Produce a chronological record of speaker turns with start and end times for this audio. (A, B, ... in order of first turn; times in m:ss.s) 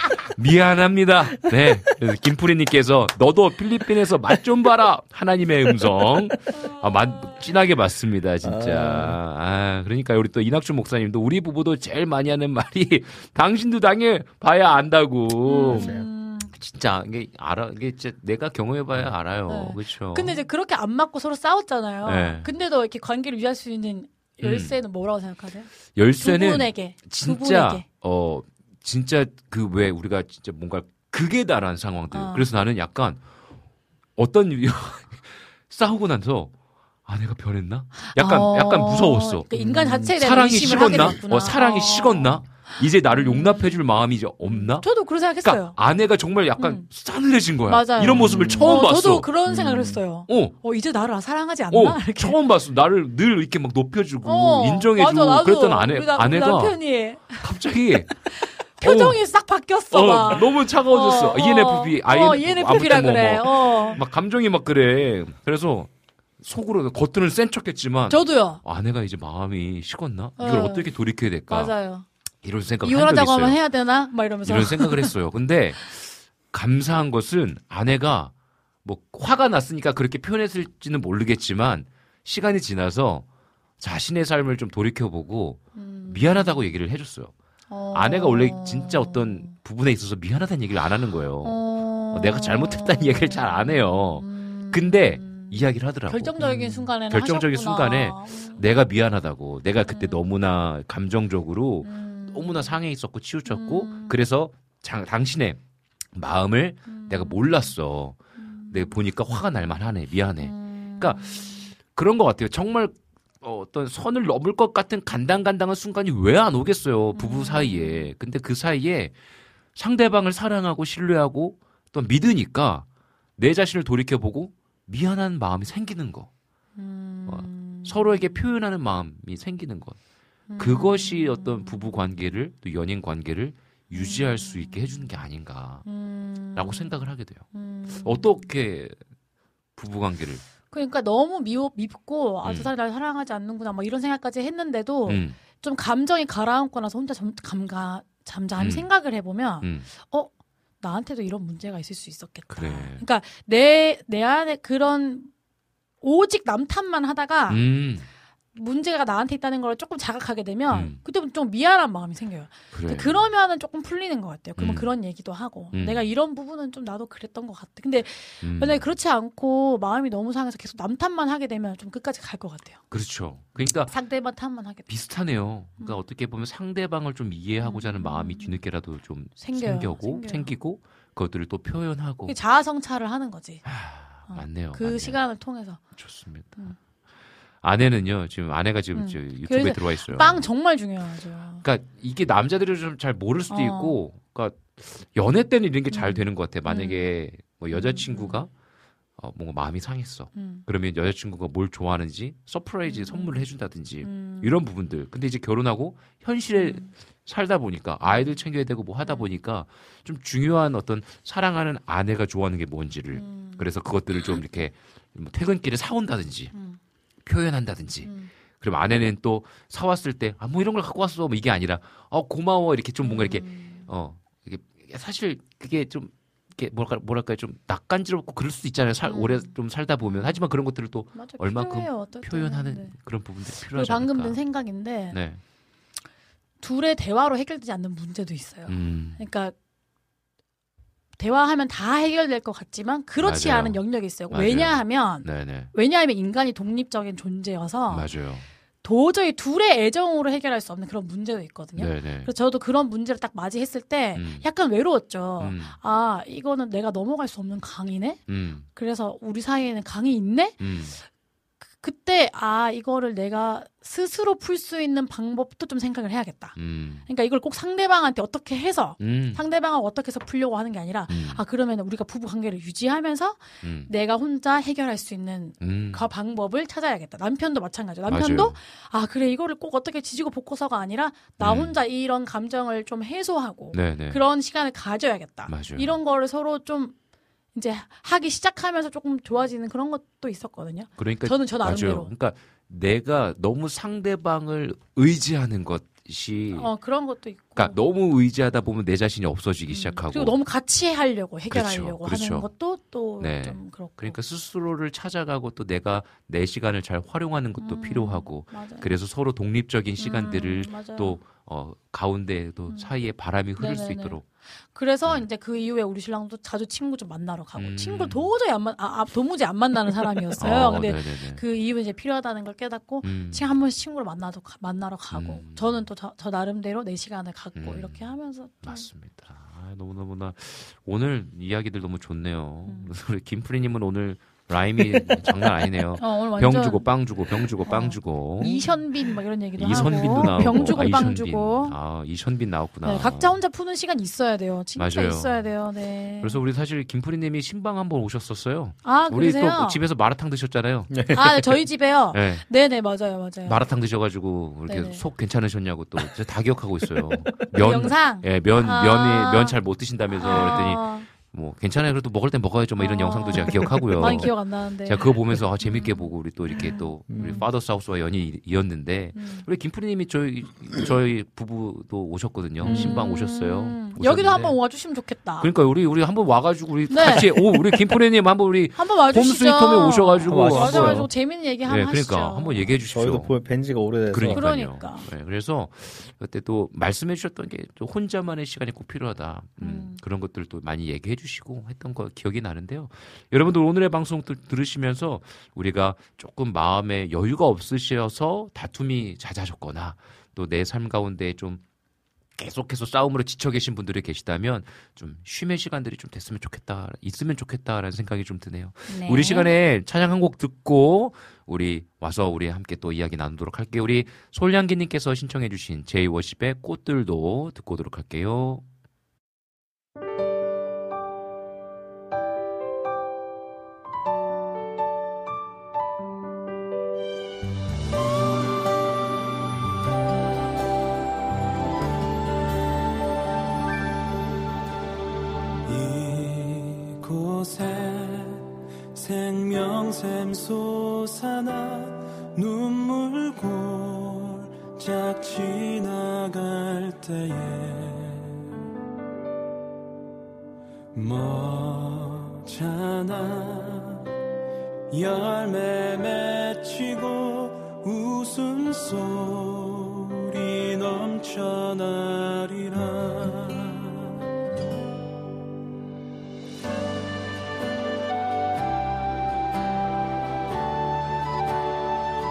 0:00.3-0:15.9 A
0:05.8-0:06.4 B
0:08.4-0:09.2 B
0:15.4-0:16.5 C
0:15.7-0:16.1 B
0:16.4-0:20.4 A
0:19.5-0:27.8 C
0:22.0-0:22.5 A
0:24.4-0:24.8 A
0:25.9-0:33.2 A
0:32.1-0:32.5 C
0:34.2-0:36.5 A
0:37.0-0:39.5 A
0:38.0-0:43.8 C
0:39.5-0:40.2 B
0:40.0-0:44.9 A
0:40.8-0:41.2 B
0:44.4-0:45.8 C
0:45.4-0:49.3 A
0:46.6-0:46.9 C
0:47.7-0:52.4 C
0:48.0-0:48.8 B
0:49.4-0:50.0 B
0:50.3-0:50.6 A
0:51.7-0:56.8 A
0:54.2-0:57.4 C
0:57.3-0:59.2 A
0:58.8-1:04.0 C
0:59.9-1:05.9 A
1:06.4-1:11.7 A
1:08.1-1:08.6 C
1:10.4-1:10.9 C
1:11.5-1:12.0 C
1:12.4-1:13.6 A
1:12.8-1:15.1 C
1:14.4-1:16.0 A
1:16.5-1:18.3 A
1:18.8-1:23.2 A
1:23.8-1:27.3 A
1:25.7-1:26.6 C
1:27.7-1:29.5 C
1:27.9-1:31.6 A
1:31.4-1:38.7 C
1:32.1-1:45.6 A
1:39.8-1:40.2 C
1:41.8-1:42.7 C
1:43.4-1:44.2 C
1:46.2-1:51.2 A
1:46.9-1:47.7 C
1:48.4-1:49.0 C
1:50.4-1:51.7 C
1:51.8-1:59.1 A
1:57.1-1:58.1 C
1:59.7-2:06.3 A
2:06.8-2:08.3 C
2:07.2-2:10.0 A
2:10.5-2:12.0 C
2:10.6-2:15.8 A
2:13.9-2:15.0 C
2:15.8-2:17.0 C
2:16.5-2:17.5 A
2:17.5-2:18.5 C
2:18.0-2:19.0 A
2:19.8-2:20.4 A
2:20.7-2:35.3 C
2:22.4-2:22.7 A
2:25.0-2:25.4 A
2:28.6-2:28.9 A
2:29.6-2:29.9 A
2:32.5-2:33.0 A
2:36.0-2:37.6 C
2:37.5-2:38.1 A
2:38.5-2:52.8 C
2:40.7-2:41.0 A
2:42.7-2:43.2 A
2:44.6-2:44.9 A
2:45.7-2:46.0 A
2:48.4-2:48.9 A
2:52.9-2:53.9 A
2:53.9-2:54.9 C
2:54.8-3:02.4 A
2:57.6-2:58.6 C
2:59.4-3:00.5 C
3:02.2-3:03.6 C
3:03.6-3:05.2 A
3:04.3-3:05.8 C
3:06.0-3:06.7 A
3:07.6-3:10.4 A
3:08.9-3:11.6 C
3:11.6-3:18.5 A
3:13.5-3:14.0 C
3:15.9-3:17.0 C
3:17.7-3:18.4 C
3:19.2-3:36.5 A
3:20.3-3:20.6 C
3:22.9-3:23.4 C
3:24.0-3:24.6 C
3:26.5-3:26.9 C
3:33.1-3:33.7 C
3:36.5-3:36.8 C
3:37.2-3:54.4 A
3:38.0-3:38.3 C
3:43.0-3:43.9 C
3:49.0-3:49.5 C
3:50.0-3:50.3 C
3:51.1-3:53.0 C
3:53.7-3:55.2 C
3:55.1-3:55.4 A
3:56.6-3:59.5 C
3:58.7-3:59.2 A
4:01.2-4:08.1 C
4:03.2-4:05.7 A
4:07.9-4:08.5 A
4:08.8-4:20.7 C
4:11.7-4:12.3 A
4:14.1-4:14.5 A
4:15.4-4:15.8 A
4:18.3-4:18.7 A
4:20.6-4:21.0 A
4:21.7-4:46.9 C
4:26.6-4:27.0 A
4:29.0-4:29.4 A
4:31.1-4:31.4 A
4:33.6-4:33.9 A
4:35.6-4:36.1 A
4:38.1-4:38.6 A
4:41.4-4:41.8 A
4:43.7-4:44.2 A
4:45.5-4:45.9 A
4:47.5-4:52.1 C
4:51.0-4:56.7 A
4:56.5-4:57.8 C
4:57.6-5:00.4 A
4:59.7-5:04.2 C
5:01.5-5:02.5 A
5:03.2-5:14.2 A
5:07.6-5:08.9 C
5:10.0-5:11.2 C
5:13.6-5:28.9 C
5:17.6-5:18.3 A
5:20.4-5:21.4 A
5:23.0-5:23.4 A
5:25.1-5:25.8 A
5:27.5-5:38.8 A
5:32.6-5:32.9 C
5:35.9-5:36.9 C
5:37.6-5:41.8 C
5:39.5-5:43.3 A
5:39.7-5:40.9 B
5:42.8-5:46.4 C
5:44.8-5:45.5 A
5:46.2-5:50.9 A
5:48.8-5:49.8 C
5:50.9-5:51.6 B
5:51.1-5:53.6 C
5:52.1-5:52.5 A
5:53.4-6:14.6 A
5:54.6-5:55.0 C
5:56.8-5:57.5 B
5:57.6-5:59.6 C
6:00.2-6:01.1 C
6:00.2-6:00.7 B
6:02.8-6:07.4 C
6:03.6-6:04.3 B
6:07.1-6:07.5 B
6:09.1-6:09.4 C
6:12.6-6:13.0 B
6:12.6-6:15.5 C
6:15.4-6:23.4 A
6:16.9-6:17.4 C
6:18.8-6:22.7 C
6:20.2-6:21.1 B
6:22.8-6:24.7 B
6:24.1-6:41.6 A
6:24.2-6:25.1 C
6:29.6-6:30.0 C
6:42.4-6:58.6 A
6:48.9-6:49.5 C
7:15.6-7:28.4 D
7:30.9-7:34.0 D
7:34.9-7:44.0 D